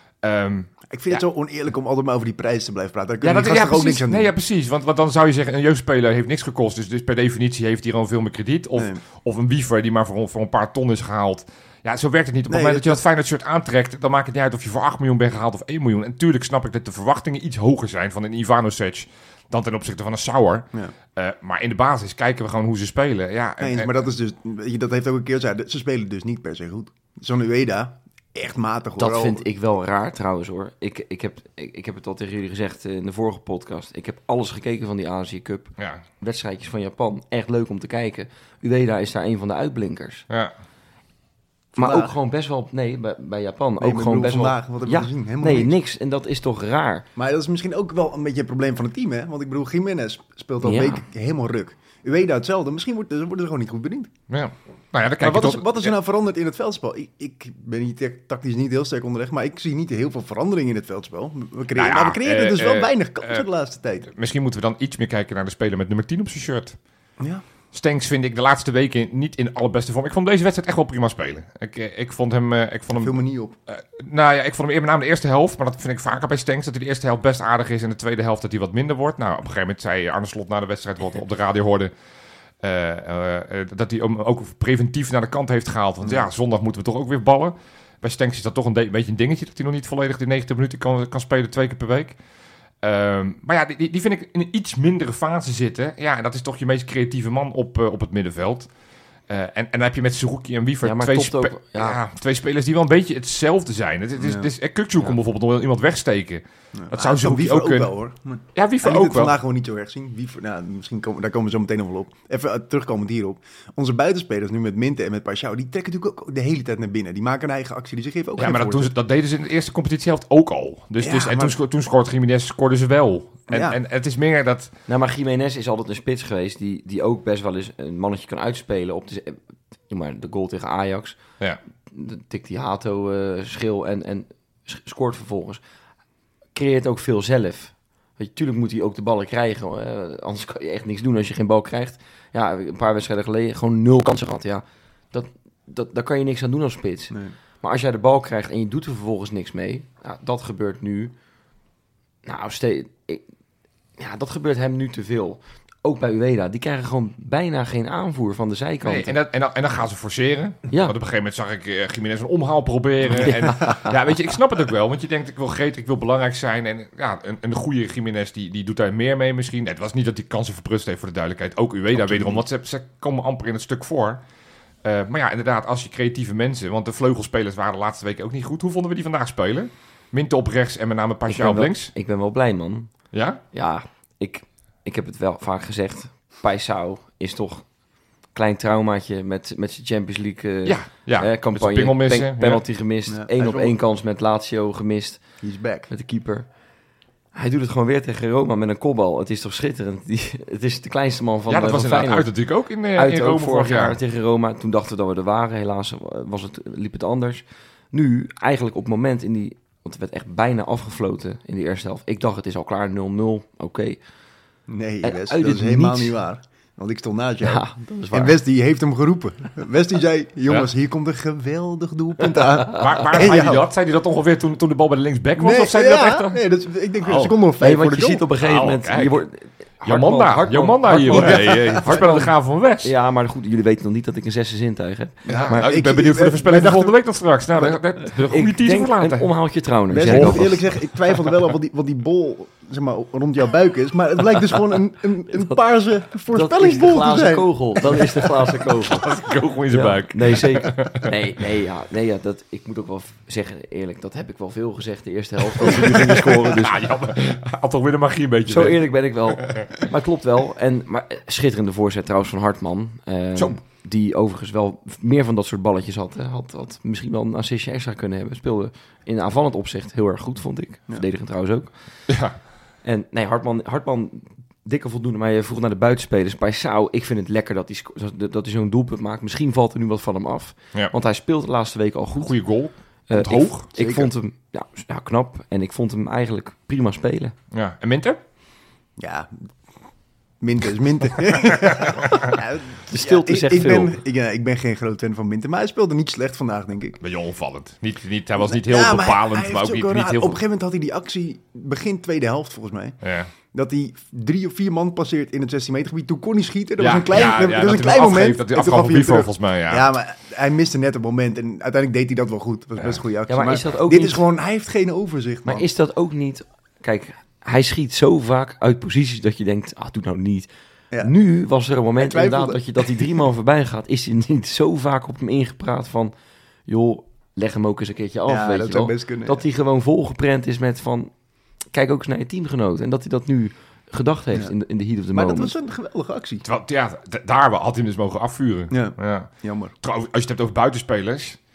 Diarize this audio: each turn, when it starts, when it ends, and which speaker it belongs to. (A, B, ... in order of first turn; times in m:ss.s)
0:00.2-0:01.2 A
0:00.9-0:04.3 B
0:03.2-0:24.0 A
0:12.5-0:13.0 B
0:23.6-0:29.5 B
0:29.0-0:40.3 C
0:41.8-0:42.1 B
0:41.8-0:47.0 C
0:43.8-0:45.8 B
0:47.2-0:54.1 B
0:50.6-0:51.0 C
0:54.3-0:55.9 A
0:55.2-1:04.1 B
1:01.8-1:03.5 A
1:04.1-1:06.8 A
1:07.2-1:07.4 B
1:07.7-1:21.9 A
1:12.9-1:13.6 B
1:22.6-1:32.2 A
1:32.8-1:38.7 A
1:39.3-1:48.0 A
1:40.8-1:42.0 C
1:44.2-1:44.5 B
1:46.8-1:58.9 B
1:48.6-1:49.3 A
1:58.4-2:04.7 A
2:01.0-2:01.6 B
2:03.5-2:03.8 B
2:04.9-2:11.2 C
2:11.9-2:15.6 C
2:16.6-2:31.1 C
2:32.2-2:33.2 C
2:34.0-2:39.2 C
2:38.8-2:54.2 A
2:43.2-2:43.9 C
2:52.0-2:52.4 B
2:54.8-3:01.9 A
3:01.3-3:02.9 C
3:03.1-3:03.4 A
3:03.5-3:07.7 C
3:08.3-3:15.2 C
3:10.6-3:12.6 A
3:13.1-3:13.8 B
3:15.4-3:15.9 B
3:15.9-3:16.5 C
3:17.4-3:22.3 C
3:21.5-3:24.0 A
3:23.0-3:34.0 C
3:34.7-3:43.7 B
3:35.0-3:36.2 C
3:37.4-3:38.4 C
3:42.7-3:46.4 A
3:42.7-3:43.0 C
3:45.4-3:48.2 B
3:47.0-3:47.3 A
3:47.6-3:52.2 C
3:48.4-3:49.2 A
3:49.8-3:52.9 A
3:51.1-3:52.3 B
3:52.8-3:55.7 C
3:55.3-3:57.0 B
3:55.3-3:59.3 A
3:58.1-4:00.6 C
3:59.9-4:08.5 B
4:00.1-4:00.6 A
4:06.3-4:09.1 C
4:08.9-4:11.1 A
4:09.7-4:16.8 C
4:15.6-4:19.8 A
4:18.5-4:31.8 C
4:32.1-4:32.4 A
4:32.8-4:42.4 C
4:42.2-4:43.7 A
4:43.1-4:47.3 C
4:43.8-4:44.1 B
4:47.5-4:48.2 A
4:49.0-4:49.5 B
4:50.4-4:57.0 B
4:51.3-4:52.4 A
4:52.9-4:54.0 C
4:57.0-5:00.4 A
4:58.4-5:15.7 B
5:03.0-5:03.3 A
5:06.8-5:09.9 A
5:13.3-5:14.2 C
5:15.5-5:20.5 C
5:21.0-5:26.1 C
5:22.0-5:23.2 B
5:26.7-5:31.1 C
5:28.3-5:29.4 B
5:31.7-5:35.5 C
5:35.1-5:36.4 B
5:36.4-5:41.4 A
5:38.7-5:39.7 B